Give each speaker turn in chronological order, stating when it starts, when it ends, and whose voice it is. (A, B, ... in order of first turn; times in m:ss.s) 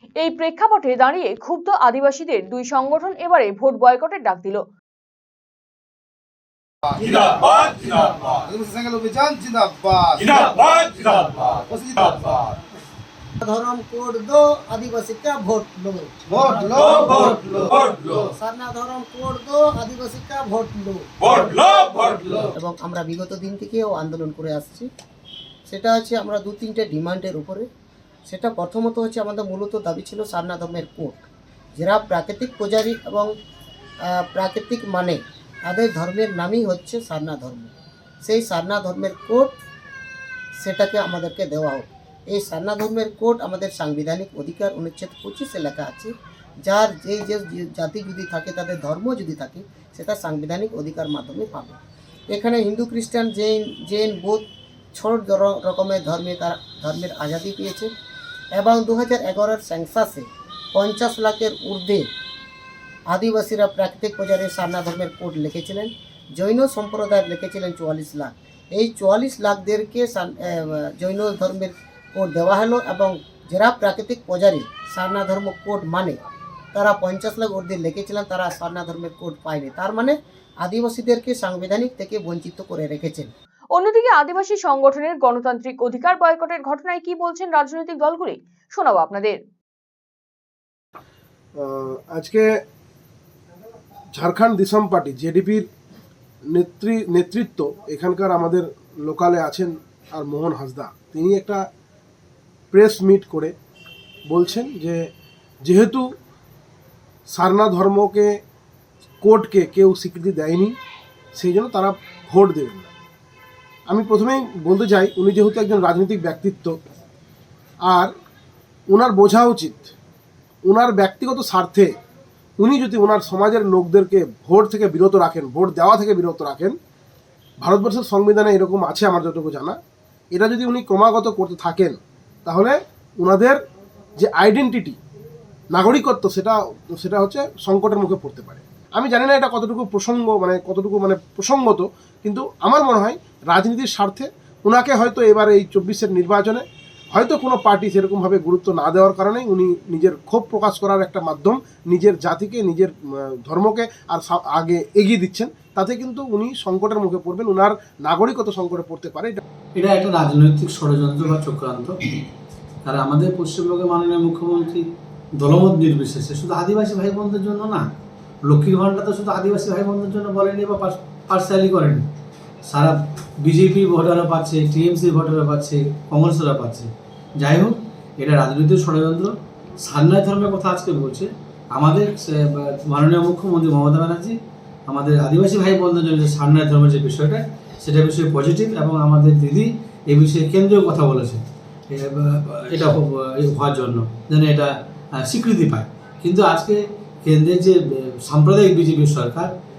0:00.2-0:04.6 A
0:07.2-0:12.6 B
0:13.4-0:16.1 C
0:16.3-0:17.2 B
0:17.4-0:24.9 C
0:25.7-0:27.7 C
0:28.3-0:31.2 C
0:31.7-0:33.3 C
0:34.1-0:39.5 C
0:40.6-0:46.1 C
0:46.6-0:51.8 C
0:52.3-0:54.4 C
0:54.9-0:57.9 C
0:58.5-1:02.1 C
1:03.1-1:16.2 C
1:16.7-1:23.3 C
1:23.7-1:29.4 A
1:31.6-1:32.4 D
1:34.1-1:35.6 D
1:36.5-1:41.6 D
1:42.7-1:43.5 D
1:44.3-1:45.0 D
1:45.6-1:46.0 D
1:47.3-1:48.3 D
1:49.2-1:50.7 D
1:51.3-1:52.9 D
1:53.9-1:56.8 D
1:58.9-1:59.9 D
2:00.7-2:01.9 D
2:02.6-2:06.7 D
2:07.6-2:09.8 D
2:10.3-2:13.6 D
2:14.2-2:15.0 D
2:15.7-2:39.4 D
2:39.8-2:42.0 E
2:42.8-2:44.8 E
2:45.4-2:47.8 E
2:48.5-2:52.0 E
2:52.6-3:19.5 E